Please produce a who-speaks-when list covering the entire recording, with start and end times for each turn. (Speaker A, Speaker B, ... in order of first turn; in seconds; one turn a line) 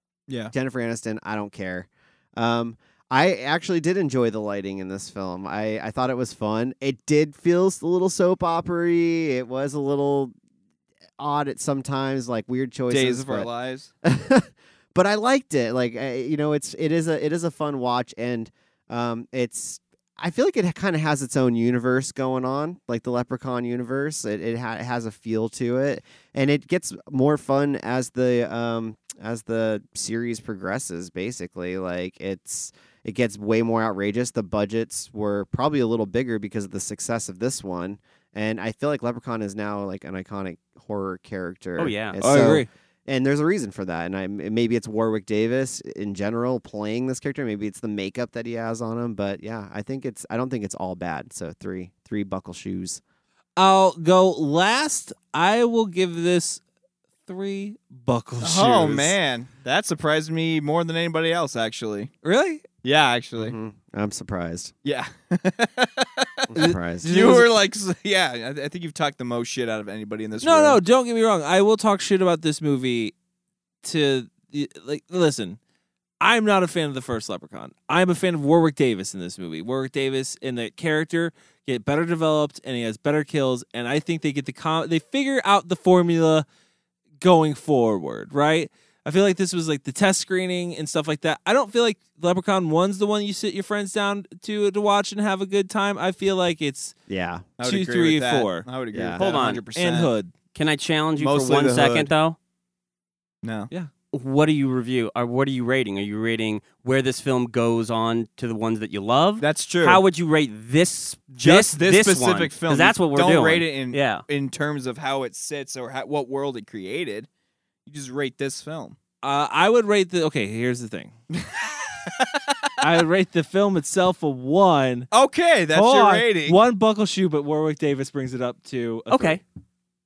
Speaker A: 0.3-0.5
Speaker B: 0.5-10.3
Speaker B: 11.2-13.5
Speaker A: 12.9-13.9
Speaker B: 14.0-53.0
Speaker C: 41.8-42.2
Speaker D: 42.2-42.7
Speaker D: 53.6-56.6
Speaker D: 57.3-59.2
Speaker A: 58.4-62.1
Speaker D: 62.2-62.6
Speaker A: 62.8-63.5
Speaker B: 63.4-64.7
Speaker A: 64.8-70.8
Speaker B: 66.5-67.4
Speaker D: 66.6-67.5
Speaker D: 70.4-73.1
Speaker D: 73.8-75.6
Speaker D: 76.2-86.5
Speaker D: 87.2-97.0
Speaker B: 97.1-97.5
Speaker A: 97.6-100.1
Speaker D: 97.6-98.7
Speaker B: 98.9-99.2
Speaker C: 99.2-99.6
Speaker D: 99.8-100.3
Speaker C: 100.5-102.4
Speaker A: 101.2-102.1
Speaker A: 103.4-103.7
Speaker C: 104.1-114.2
Speaker A: 109.4-110.0
Speaker A: 111.4-117.3
Speaker A: 117.9-119.0
Speaker D: 119.2-121.2
Speaker A: 121.3-122.9
Speaker D: 122.8-125.1
Speaker A: 125.1-126.6
Speaker D: 125.7-129.4
Speaker C: 129.1-129.4